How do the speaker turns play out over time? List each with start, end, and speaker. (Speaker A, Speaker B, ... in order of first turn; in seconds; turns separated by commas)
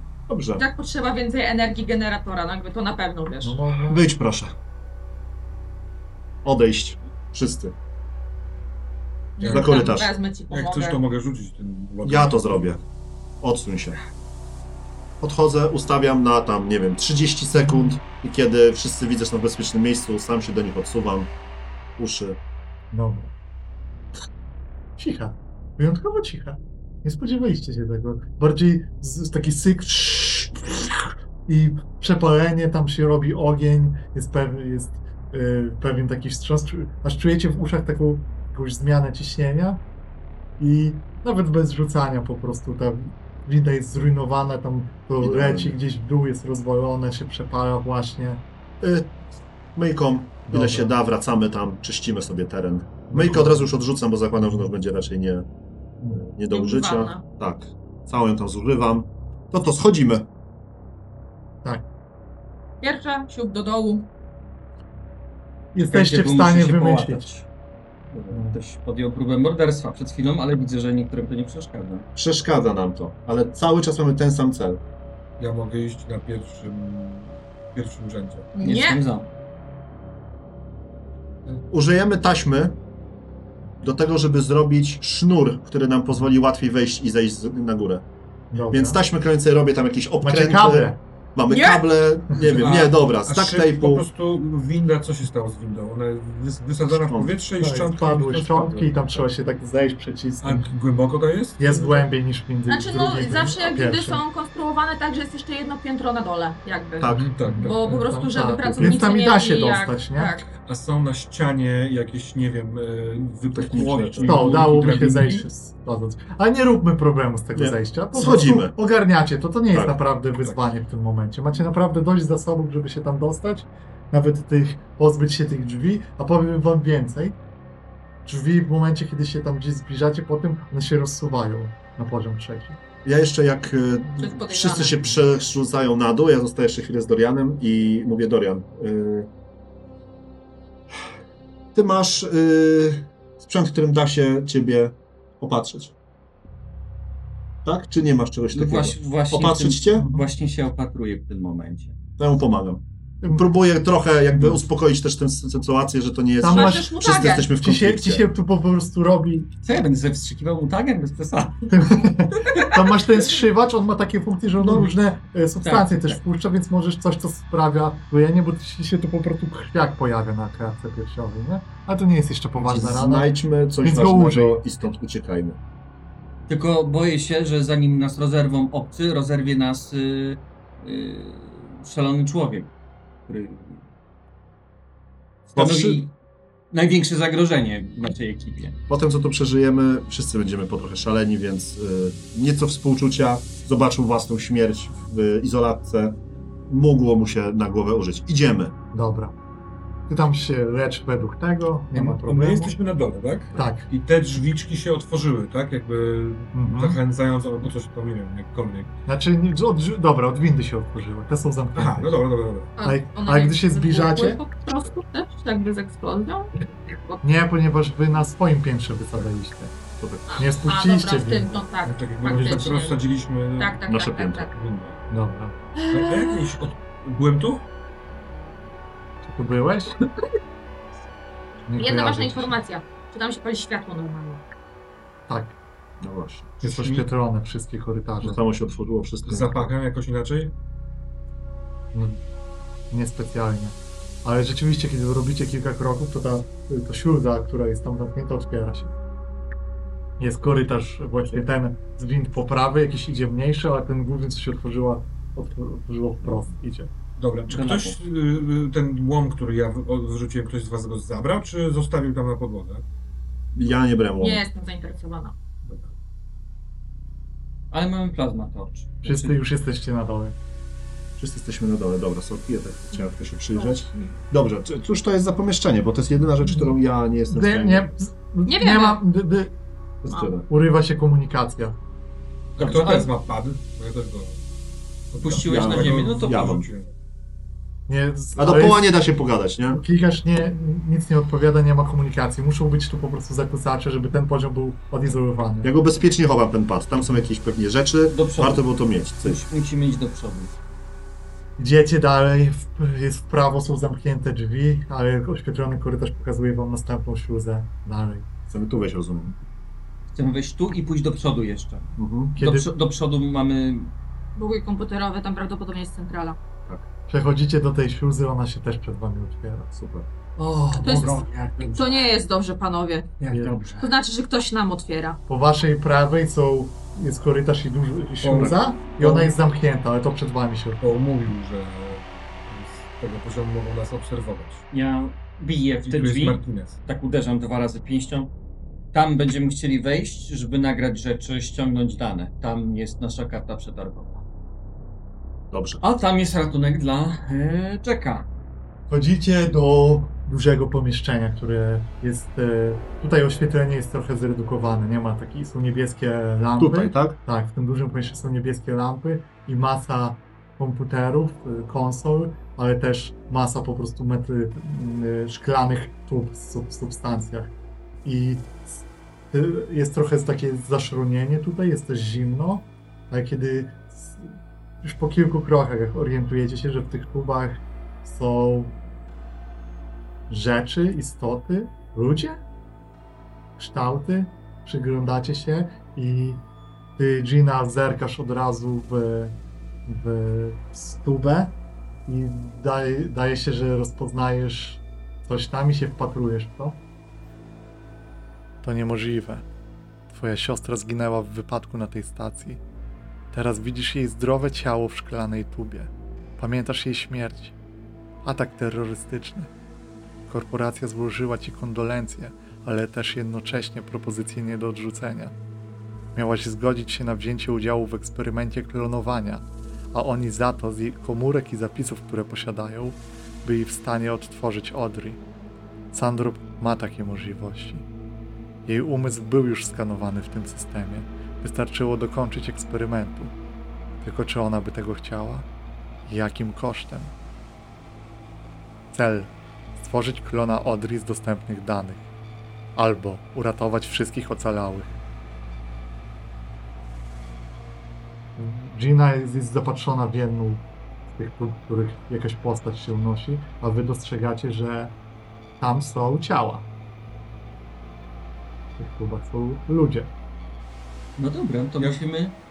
Speaker A: 0.3-0.7, Speaker B: 0.6-3.6, Speaker C: 3.4-4.1, Speaker A: 3.9-4.6, Speaker A: 6.4-7.8, Speaker B: 9.4-11.0, Speaker D: 9.4-10.0, Speaker A: 9.5-10.1, Speaker D: 10.5-12.8, Speaker A: 12.0-12.8, Speaker A: 13.4-14.0, Speaker A: 15.2-21.3, Speaker C: 17.6-18.0, Speaker A: 22.0-22.4, Speaker C: 22.9-23.3, Speaker C: 25.0-39.8, Speaker C: 40.6-48.4, Speaker A: 45.2-45.8, Speaker A: 48.8-49.1, Speaker A: 49.8-55.5, Speaker C: 50.5-51.0, Speaker C: 53.1-53.7, Speaker A: 56.1-60.3, Speaker B: 56.5-57.3, Speaker B: 62.8-64.1, Speaker C: 65.7-67.3, Speaker E: 65.9-67.5, Speaker E: 68.1-72.1, Speaker C: 68.3-68.6, Speaker A: 72.2-74.8, Speaker D: 75.4-78.5, Speaker B: 78.5-79.0, Speaker E: 78.6-79.3, Speaker A: 81.7-82.8, Speaker A: 83.8-88.0, Speaker C: 88.5-89.0, Speaker A: 88.7-94.1, Speaker C: 90.2-91.0, Speaker B: 91.5-91.9, Speaker C: 92.3-92.6, Speaker D: 92.4-99.1, Speaker A: 97.0-97.3, Speaker C: 97.6-100.7, Speaker D: 100.4-102.1, Speaker C: 101.6-104.2, Speaker B: 102.7-110.5, Speaker A: 107.0-107.3, Speaker D: 107.1-108.0, Speaker C: 107.5-110.3, Speaker D: 110.5-115.5, Speaker A: 113.5-114.6, Speaker C: 114.2-127.4, Speaker A: 117.6-118.7, Speaker C: 128.3-132.8, Speaker A: 133.0-139.3, Speaker B: 134.2-135.0, Speaker A: 141.7-145.9, Speaker A: 147.7-150.1, Speaker E: 148.5-151.9, Speaker C: 150.0-150.3, Speaker A: 152.2-158.2, Speaker C: 154.3-154.6, Speaker C: 156.4-159.5, Speaker B: 156.5-157.5, Speaker E: 159.6-161.8, Speaker C: 161.7-174.6, Speaker E: 162.4-162.8, Speaker E: 165.6-166.2, Speaker A: 172.6-175.6, Speaker E: 176.5-182.7, Speaker E: 183.3-183.8, Speaker E: 185.5-186.1, Speaker A: 185.6-186.1, Speaker E: 186.7-188.8, Speaker A: 188.9-198.8, Speaker C: 198.9-199.3, Speaker C: 200.1-202.8, Speaker D: 201.9-208.9, Speaker C: 203.5-203.9, Speaker C: 206.5-207.0, Speaker C: 209.1-212.2, Speaker D: 211.8-212.7, Speaker B: 212.8-217.2, Speaker C: 212.8-214.4, Speaker C: 217.2-219.7, Speaker A: 220.0-220.4, Speaker C: 220.3-221.6, Speaker B: 220.6-223.0, Speaker D: 221.8-223.8, Speaker C: 222.3-222.6, Speaker B: 223.6-224.5, Speaker A: 223.9-224.5, Speaker D: 224.5-225.0, Speaker C: 225.1-225.6, Speaker B: 225.8-226.5, Speaker D: 225.9-227.7, Speaker C: 229.2-229.9, Speaker C: 231.7-232.6, Speaker B: 231.8-234.4, Speaker C: 235.3-235.6, Speaker A: 236.0-236.6, Speaker D: 236.6-237.1, Speaker C: 236.6-238.4, Speaker A: 238.2-239.7, Speaker D: 239.2-240.5, Speaker C: 242.9-248.9, Speaker C: 250.2-256.9, Speaker D: 257.2-262.8, Speaker E: 257.5-258.0, Speaker A: 263.5-264.4, Speaker B: 264.2-265.4, Speaker D: 265.6-265.9, Speaker E: 267.7-269.4, Speaker C: 269.0-270.4, Speaker A: 271.2-277.9, Speaker B: 273.6-274.1, Speaker C: 277.3-279.5, Speaker B: 278.5-279.0, Speaker A: 280.0-280.5, Speaker C: 280.5-281.8, Speaker D: 282.6-284.4, Speaker E: 282.6-283.1, Speaker D: 285.1-286.9, Speaker E: 285.2-286.6, Speaker A: 285.5-286.7, Speaker C: 287.9-289.0, Speaker A: 288.4-289.8, Speaker C: 289.7-295.7, Speaker A: 295.6-299.4, Speaker E: 298.1-300.5, Speaker C: 301.6-308.3, Speaker A: 308.5-309.4, Speaker E: 310.1-313.9, Speaker A: 312.0-312.4, Speaker C: 312.4-312.7, Speaker B: 314.4-316.4, Speaker C: 317.1-319.7, Speaker A: 319.7-320.1, Speaker E: 320.4-322.1, Speaker C: 320.8-321.2, Speaker B: 320.8-323.2, Speaker E: 323.2-323.9, Speaker C: 323.3-323.6, Speaker B: 323.8-325.2, Speaker C: 325.3-330.8, Speaker D: 328.2-329.3, Speaker D: 330.8-334.6, Speaker E: 334.7-338.3, Speaker D: 335.9-336.8, Speaker E: 338.9-344.2, Speaker A: 345.5-345.8, Speaker E: 345.8-348.3, Speaker C: 348.9-367.5, Speaker A: 356.6-357.2, Speaker C: 368.1-378.8, Speaker C: 380.3-382.4, Speaker C: 383.6-386.4, Speaker C: 387.0-396.8, Speaker C: 398.6-399.5, Speaker C: 400.1-402.6, Speaker C: 403.3-407.6, Speaker C: 408.2-409.5, Speaker C: 410.3-415.4, Speaker C: 416.1-425.2, Speaker C: 425.9-427.9, Speaker C: 428.7-433.3, Speaker C: 434.0-435.5, Speaker C: 436.1-437.1, Speaker C: 438.9-442.1, Speaker C: 442.8-445.0, Speaker C: 448.4-454.9, Speaker C: 455.6-456.7, Speaker C: 458.8-460.1, Speaker E: 461.2-462.4